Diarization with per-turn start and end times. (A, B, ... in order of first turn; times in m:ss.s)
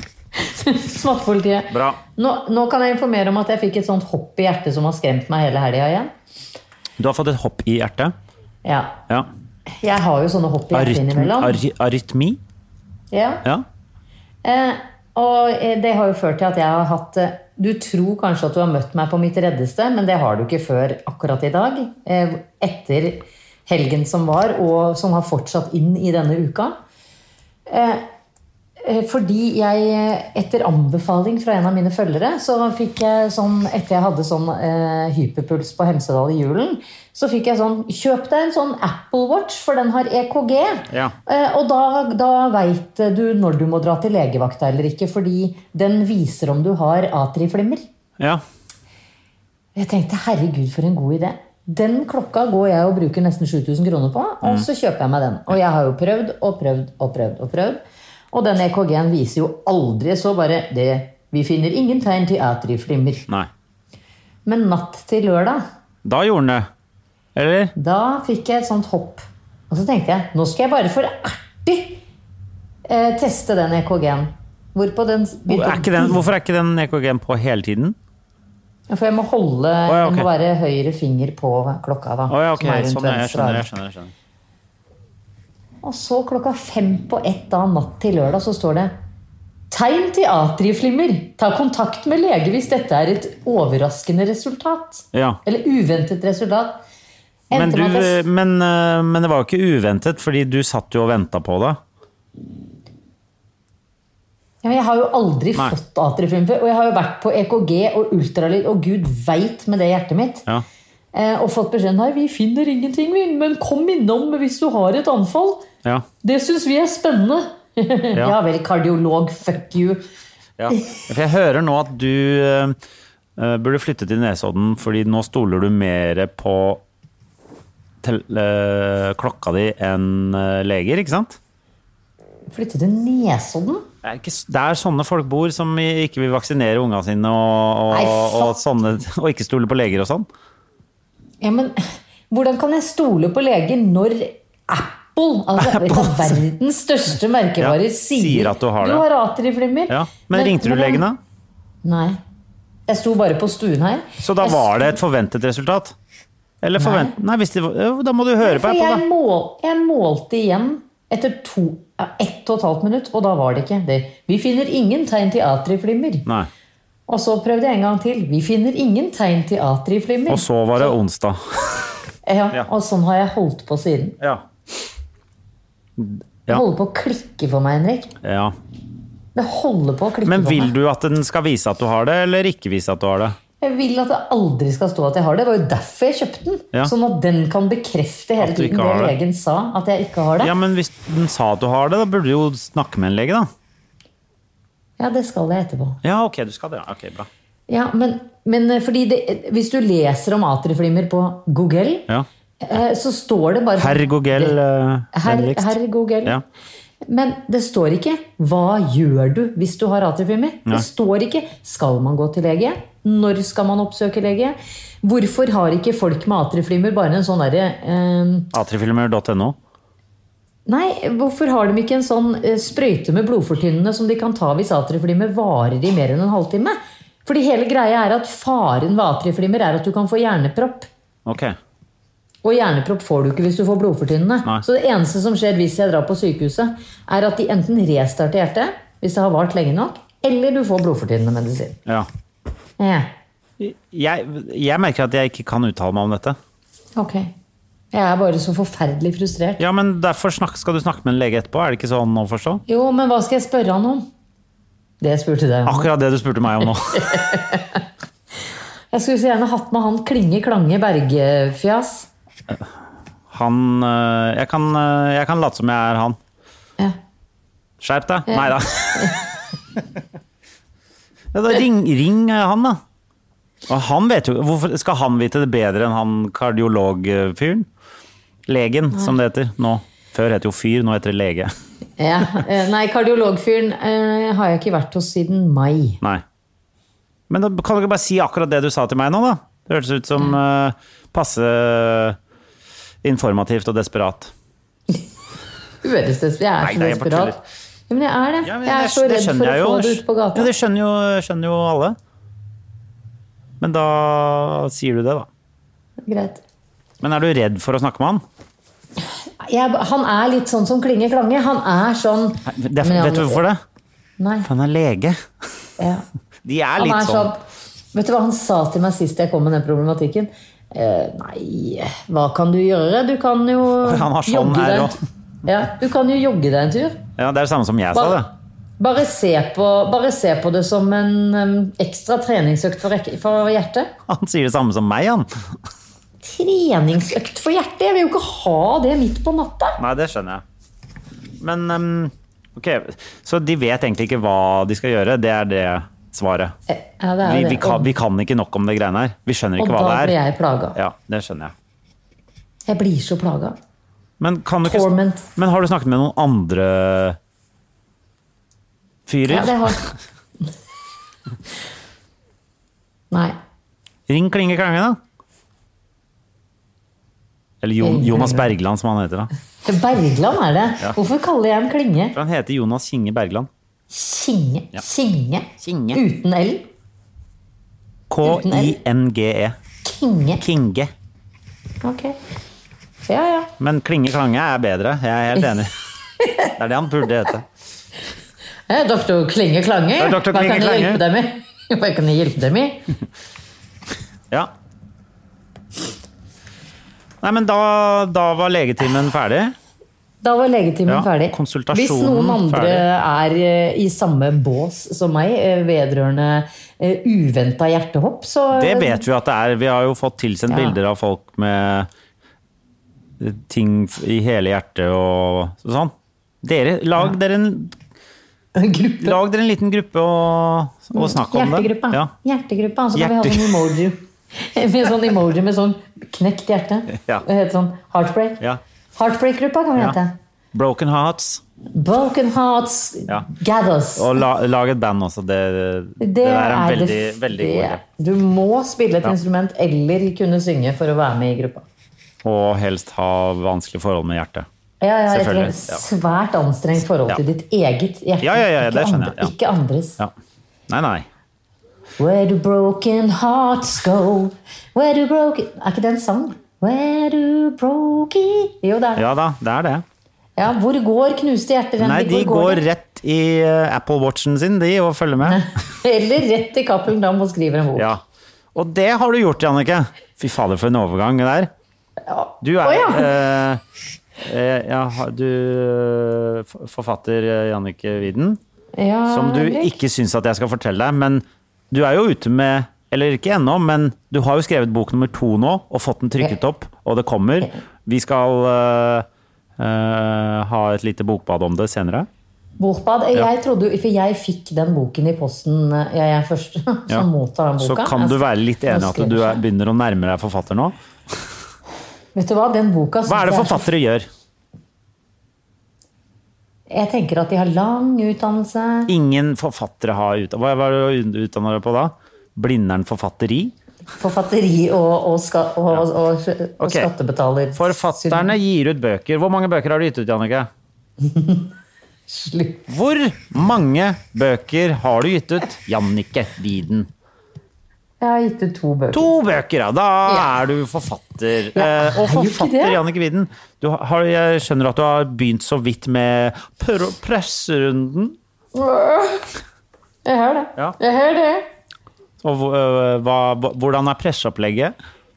0:00.4-0:06.1 A
0:01.7-0:02.0 B
0:07.0-0:08.1 B
0:08.6-0:09.0 A
0:09.8-0:11.6 A
0:10.7-0:12.4 B
0:13.1-0:13.4 A
0:14.4-0:26.8 A
0:27.7-0:28.0 A
0:28.8-0:47.9 A
0:49.8-0:57.8 A
0:58.3-1:03.3 A
1:04.5-1:05.6 A
1:06.0-1:06.7 B
1:07.4-1:07.7 B
1:07.8-1:12.0 A
1:12.9-1:16.2 A
1:15.5-1:18.0 B
1:18.9-1:23.7 A
1:19.9-1:20.3 B
1:22.3-1:24.1 B
1:25.8-1:28.9 A
1:29.7-1:36.8 A
1:35.1-1:35.4 B
1:37.5-1:38.2 A
1:37.5-1:41.8 B
1:44.6-1:50.4 A
1:51.1-1:55.7 A
1:56.2-2:00.0 A
2:00.6-2:02.8 B
2:03.4-2:06.8 B
2:08.0-2:11.4 B
2:12.5-2:13.8 A
2:14.0-2:20.3 B
2:17.9-2:18.6 A
2:21.4-2:31.0 A
2:25.6-2:26.4 B
2:27.6-2:29.0 B
2:29.9-2:31.2 B
2:31.8-2:32.2 A
2:32.9-2:34.9 A
2:34.2-2:36.0 B
2:36.6-2:39.0 B
2:36.8-2:37.2 A
2:38.4-2:46.3 A
2:47.1-2:50.9 A
2:50.3-2:51.9 B
2:52.3-2:54.2 A
2:56.0-2:56.6 B
2:56.5-2:58.1 A
2:58.2-2:58.6 B
2:59.4-3:00.7 A
3:00.3-3:03.4 B
3:03.6-3:10.5 A
3:08.4-3:09.2 B
3:10.4-3:13.5 B
3:15.0-3:16.0 A
3:16.0-3:17.3 B
3:17.7-3:22.1 A
3:22.6-3:24.6 A
3:23.8-3:26.4 B
3:25.1-3:26.4 A
3:27.1-3:38.5 A
3:38.5-3:39.6 B
3:40.7-3:50.9 A
3:51.3-3:51.6 B
3:52.4-4:01.8 A
4:02.8-4:03.1 A
4:03.6-4:06.4 B
4:07.0-4:07.3 A
4:07.9-4:09.6 A
4:09.6-4:12.6 B
4:12.7-4:14.1 A
4:15.0-4:15.9 A
4:15.7-4:17.2 B
4:16.9-4:17.8 A
4:18.9-4:22.1 A
4:23.3-4:26.2 B
4:27.8-4:29.2 B
4:28.3-4:29.2 A
4:31.3-4:32.8 B
4:33.7-4:37.7 B
4:38.5-4:41.5 B
4:42.0-4:46.0 A
4:47.3-4:52.2 B
4:53.0-4:54.3 B
4:55.8-4:57.4 A
4:56.6-4:57.4 B
4:57.9-5:00.5 A
4:58.4-5:02.0 B
5:03.6-5:05.3 B
5:06.1-5:06.4 A
5:07.0-5:08.2 B
5:09.0-5:13.4 A
5:12.5-5:13.6 B
5:14.2-5:14.5 A
5:14.4-5:15.2 B
5:15.8-5:16.0 A
5:16.4-5:17.3 B
5:16.8-5:17.4 A
5:17.9-5:27.0 A
5:23.8-5:24.9 B
5:27.2-5:28.3 B
5:27.9-5:28.2 A
5:28.8-5:33.9 A
5:34.1-5:35.3 B
5:36.2-5:39.8 A
5:39.8-5:40.4 B
5:41.4-5:46.6 B
5:46.7-5:47.9 A
5:47.2-5:50.2 B
5:49.6-5:50.8 A
5:50.8-5:51.5 B
5:52.7-5:53.6 A
5:54.2-5:57.2 B
5:54.6-5:55.3 A
5:59.1-5:59.9 B
5:59.3-5:59.8 A
6:03.1-6:03.4 A
6:04.1-6:05.0 B
6:07.6-6:09.3 B
6:07.8-6:08.5 A
6:09.6-6:12.2 A
6:12.2-6:13.5 B
6:13.9-6:16.7 A
6:15.6-6:16.0 B
6:18.1-6:19.6 B
6:18.2-6:18.8 A
6:19.8-6:20.4 A
6:20.4-6:20.9 B
6:21.8-6:22.2 A
6:23.1-6:23.5 A
6:23.6-6:25.7 B
6:26.2-6:26.5 A
6:26.6-6:27.5 B
6:28.7-6:32.8 A
6:30.0-6:31.0 B
6:37.2-6:39.6 B
6:40.2-6:49.0 A
6:40.9-6:42.8 B
6:48.5-6:51.9 B
6:50.5-6:50.8 A
6:53.2-6:57.7 B
6:58.6-6:59.2 A
6:59.0-7:02.1 B
7:00.9-7:08.4 A
7:03.0-7:03.7 B
7:09.0-7:10.2 A
7:10.5-7:11.4 B
7:11.7-7:14.2 A
7:14.0-7:17.8 B
7:16.0-7:21.7 A
7:22.2-7:24.5 B
7:24.8-7:30.0 A
7:25.1-7:25.8 B
7:28.2-7:29.3 B
7:30.7-7:31.1 B
7:32.0-7:39.0 A
7:39.0-7:39.8 B
7:40.4-7:42.6 A
7:41.8-7:45.4 B
7:45.2-7:47.9 A
7:47.8-7:48.0 B
7:48.6-7:51.5 B
7:52.1-7:53.1 A
7:52.4-7:53.6 B
7:54.2-7:58.4 B
7:58.8-7:59.8 A
7:59.1-8:09.1 B
8:09.6-8:12.1 B
8:12.6-8:19.4 A
8:17.6-8:20.8 B
8:22.2-8:23.7 A
8:23.1-8:24.1 B
8:26.7-8:28.9 A
8:28.9-8:33.5 B
8:34.0-8:38.3 A
8:36.6-8:36.9 B
8:37.6-8:40.5 B
8:41.0-8:41.5 A
8:42.1-8:42.7 A
8:42.7-8:46.9 B
8:48.0-8:49.1 A
8:48.9-8:58.2 B
8:51.6-8:52.8 A
8:58.6-8:59.3 A
9:00.0-9:01.5 A
9:02.2-9:04.7 B